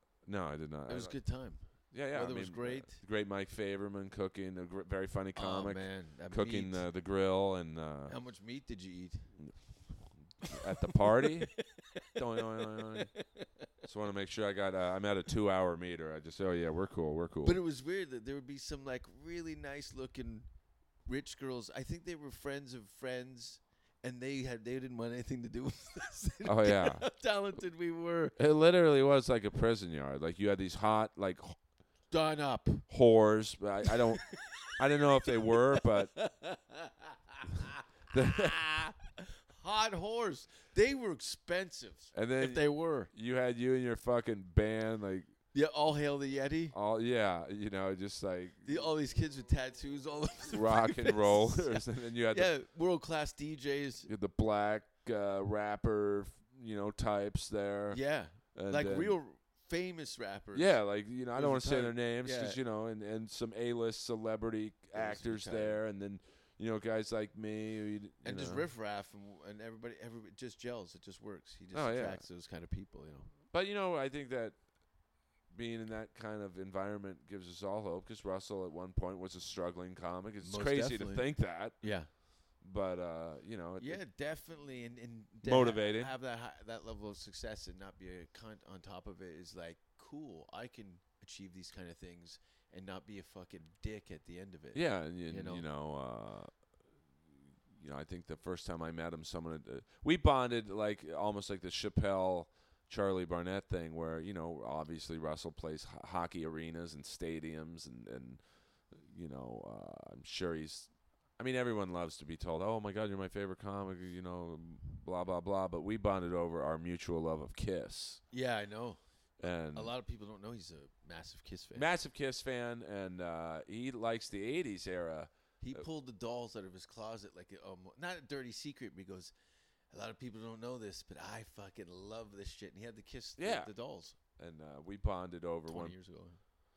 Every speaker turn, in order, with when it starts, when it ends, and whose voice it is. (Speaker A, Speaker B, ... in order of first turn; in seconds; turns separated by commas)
Speaker A: 0.3-1.2, Speaker B: 0.9-3.0, Speaker A: 1.7-8.1, Speaker B: 5.3-6.9, Speaker B: 8.1-9.3, Speaker A: 9.4-11.6, Speaker B: 10.4-13.5, Speaker A: 12.1-13.1, Speaker A: 13.8-17.6, Speaker B: 17.4-20.5, Speaker B: 21.1-28.4, Speaker A: 26.4-27.1, Speaker A: 28.4-31.6, Speaker B: 32.1-32.9, Speaker A: 32.9-36.1, Speaker B: 33.9-43.1, Speaker A: 38.1-38.9, Speaker A: 42.1-45.3, Speaker B: 45.5-46.8, Speaker A: 46.7-48.7, Speaker B: 48.6-54.1, Speaker A: 50.5-52.5, Speaker A: 54.1-58.0, Speaker B: 57.9-62.6, Speaker A: 58.5-59.2, Speaker A: 60.5-68.7, Speaker B: 64.9-65.8, Speaker B: 68.2-73.3, Speaker A: 71.7-72.2, Speaker A: 73.5-74.6, Speaker A: 75.5-81.9, Speaker B: 80.4-82.1, Speaker A: 82.6-84.0, Speaker B: 83.8-95.6, Speaker A: 85.4-86.1, Speaker A: 94.7-96.5, Speaker A: 97.7-118.2, Speaker B: 118.3-121.9, Speaker A: 119.4-119.9, Speaker A: 121.7-125.8, Speaker B: 125.6-129.3, Speaker B: 129.9-134.2, Speaker A: 133.4-133.7, Speaker A: 134.4-135.9, Speaker B: 135.7-136.4